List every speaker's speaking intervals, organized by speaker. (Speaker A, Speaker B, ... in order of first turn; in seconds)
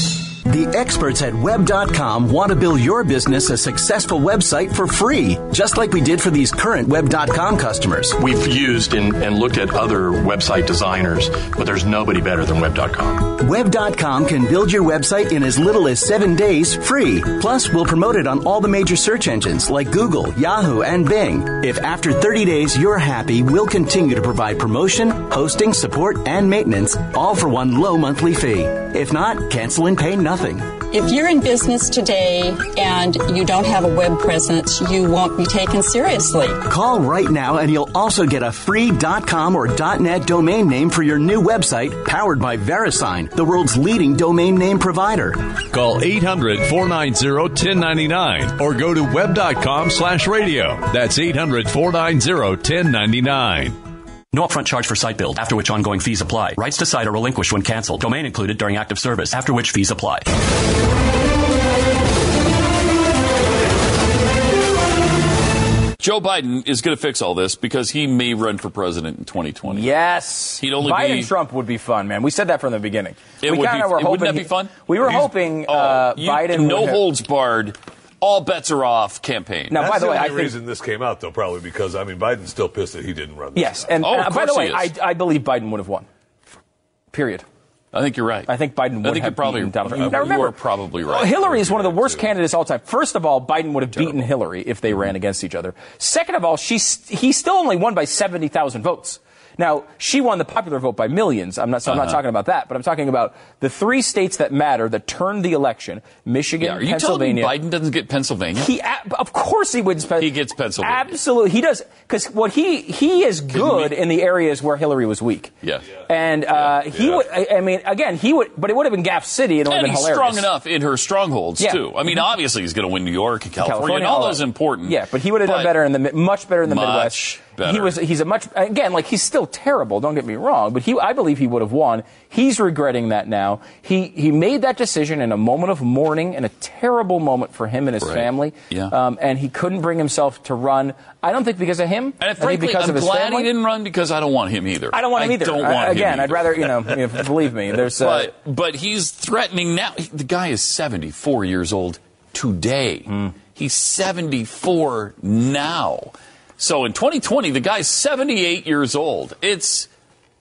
Speaker A: 0.5-8.2, 13.2-30.8, 36.7-45.5
Speaker B: 8.2-13.3
Speaker C: 30.9-36.6
Speaker D: 45.7-53.7
Speaker E: 54.3-60.3
Speaker F: 66.0-69.9, 70.6-71.3, 73.4-79.9, 84.0-84.9, 87.9-91.5, 101.9-102.2, 106.6-108.7, 110.2-111.2, 113.5-113.9, 115.6-115.9, 119.7-125.7, 126.7-128.0, 138.0-138.9, 142.2-146.9, 147.8-159.9
Speaker G: 69.7-77.1, 79.7-80.6, 83.5-86.1, 87.1-87.5, 88.5-107.5, 108.5-120.5, 121.6-122.1, 123.6-143.5, 144.9-148.3
Speaker H: 79.8-83.8, 91.5-92.2